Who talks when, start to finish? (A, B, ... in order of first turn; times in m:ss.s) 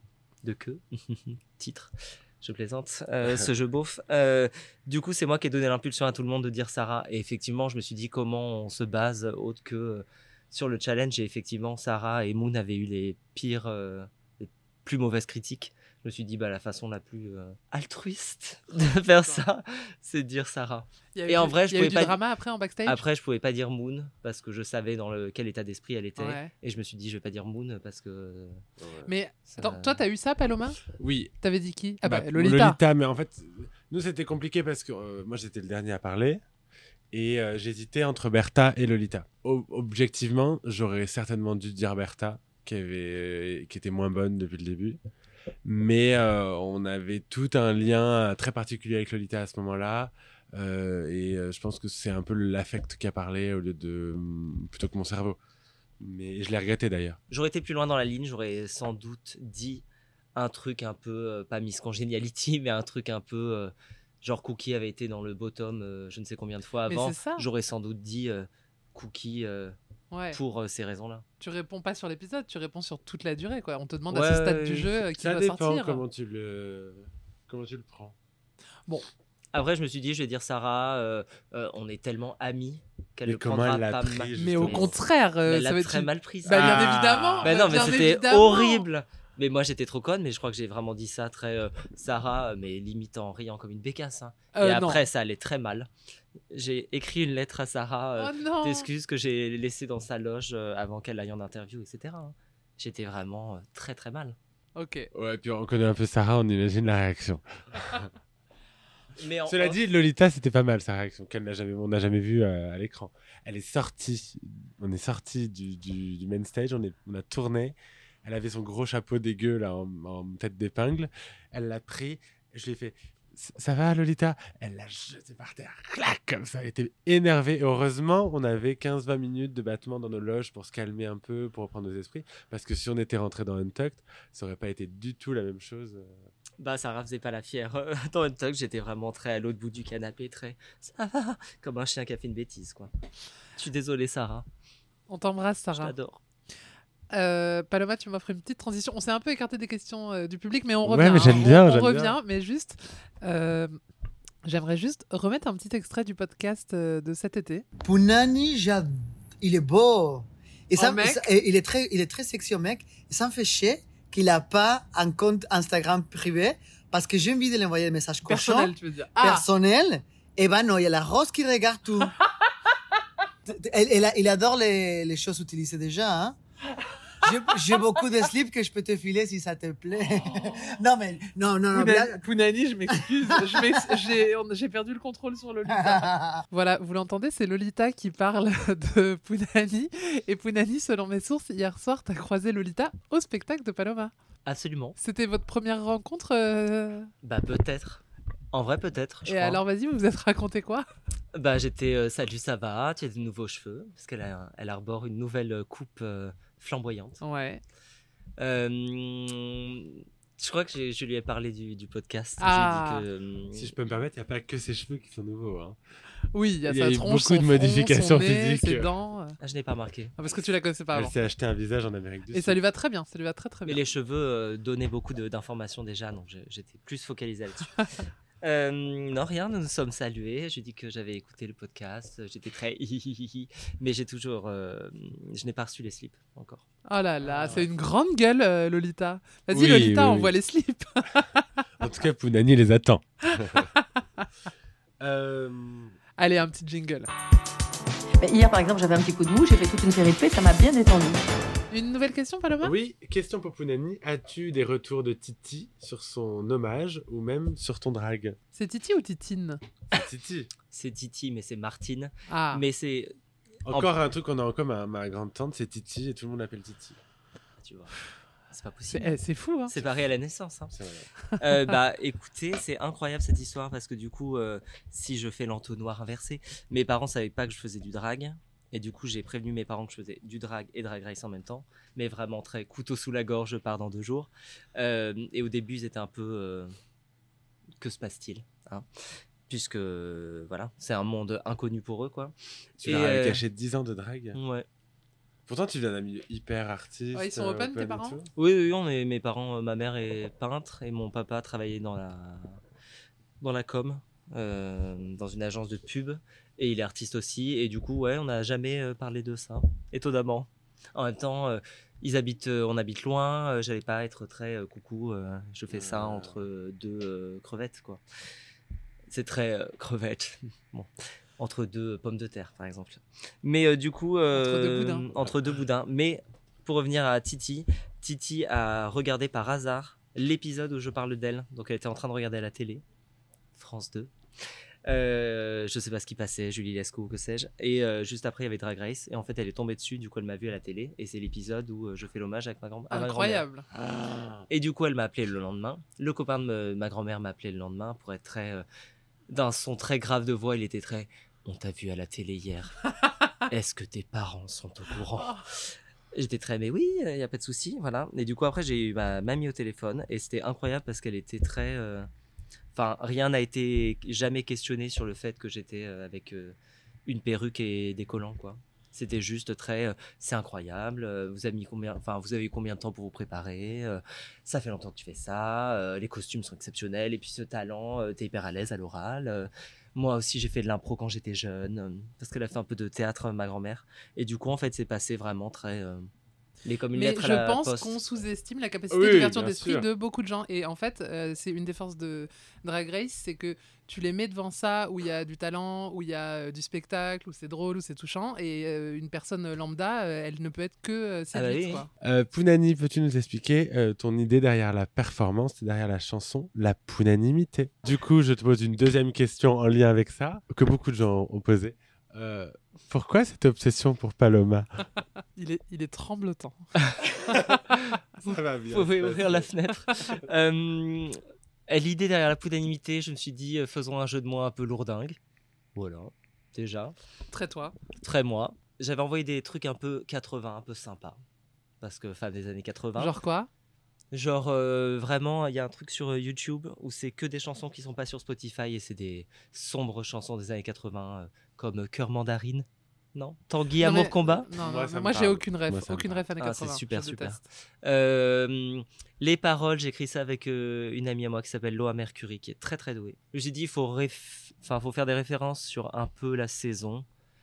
0:00.4-0:22.2 A
0:03.2-0:03.5 B
0:21.2-0:23.0 C
0:22.9-0:28.6 A
0:26.2-0:26.5 C
0:28.8-0:29.1 B
0:29.1-0:30.8 C
0:29.5-0:30.0 A
0:30.9-0:31.3 B
0:31.4-0:32.8 C
0:32.0-0:36.4 B
0:37.1-0:45.0 B
0:45.6-0:55.4 B
0:56.0-0:57.2 B
0:57.3-0:59.8 A
1:00.4-1:09.8 A
1:06.9-1:07.5 C
1:10.1-1:10.4 C
1:10.3-1:11.2 A
1:11.4-1:16.0 C
1:14.1-1:15.0 A
1:15.2-1:18.2 B
1:19.5-1:24.9 A
1:23.2-1:25.0 B
1:24.4-1:28.9 C
1:25.4-1:35.9 A
1:26.4-1:28.1 B
1:34.5-1:35.0 C
1:36.5-1:44.4 A
1:38.2-1:38.9 C
1:44.8-1:45.1 C
1:45.1-1:48.1 B
1:49.2-1:49.8 A
1:49.5-2:16.3 B
2:16.6-2:22.9 A
2:23.6-2:24.5 A
2:25.1-2:25.9 C
2:25.7-2:26.2 A
2:27.1-2:33.8 C
2:30.8-2:32.2 B
2:34.4-2:37.6 C
2:37.8-2:52.1 D
2:40.8-2:41.3 C
2:48.3-2:49.5 C
2:53.5-2:56.4 D
2:57.2-3:02.2 D
3:00.3-3:00.7 C
3:01.7-3:14.1 C
3:02.9-3:04.1 D
3:05.7-3:06.4 D
3:14.4-3:15.0 A
3:15.0-3:17.1 C
3:17.2-3:19.6 A
3:19.3-3:20.9 C
3:21.3-3:27.2 A
3:27.2-3:27.6 C
3:28.4-3:33.7 A
3:32.4-3:33.1 C
3:33.5-3:35.8 B
3:36.3-3:39.4 C
3:36.7-3:38.9 B
3:39.4-3:40.1 A
3:40.2-3:41.2 C
3:40.9-3:42.6 B
3:42.3-3:43.8 C
3:43.7-3:56.6 A
3:56.9-4:01.6 C
3:57.2-3:57.7 B
3:59.5-4:00.3 B
4:01.8-4:03.7 B
4:03.2-4:04.3 C
4:05.0-4:06.0 B
4:06.2-4:07.1 C
4:08.2-4:11.2 E
4:11.7-4:12.8 C
4:12.6-4:18.4 B
4:18.5-4:19.6 C
4:19.9-4:20.5 B
4:20.7-4:23.1 A
4:22.3-4:22.6 C
4:23.7-4:27.0 B
4:23.7-4:23.9 A
4:27.6-4:29.2 A
4:28.9-4:29.7 C
4:29.7-4:30.8 A
4:30.7-4:31.1 B
4:31.4-4:46.7 A
4:47.8-4:48.9 A
4:49.5-4:53.4 A
4:52.8-4:54.4 B
4:54.3-4:54.7 A
4:55.5-4:58.3 B
4:57.1-4:58.2 C
4:58.4-5:02.6 A
5:03.4-5:18.0 A
5:15.7-5:16.4 B
5:19.1-5:32.8 A
5:24.3-5:25.1 C
5:33.6-5:34.1 A
5:34.9-5:43.4 A
5:42.9-5:43.7 C
5:43.7-5:44.5 B
5:44.5-5:48.6 A
5:49.3-5:52.8 A
5:53.4-6:02.1 A
6:02.8-6:26.1 A
6:26.6-6:28.0 A
6:26.9-6:41.9 C
6:28.9-6:29.9 B
6:41.3-6:41.8 A
6:42.0-6:54.7 B
6:55.4-6:56.7 C
6:57.3-6:57.6 B
6:57.7-6:58.0 A
6:58.2-6:59.5 B
6:58.7-7:05.2 A
7:05.8-7:07.0 A
7:07.3-7:07.8 C
7:08.0-7:11.2 A
7:11.8-7:13.2 A
7:13.0-7:13.5 C
7:14.1-7:24.5 A
7:23.8-7:27.4 C
7:24.5-7:26.2 B
7:26.4-7:37.1 A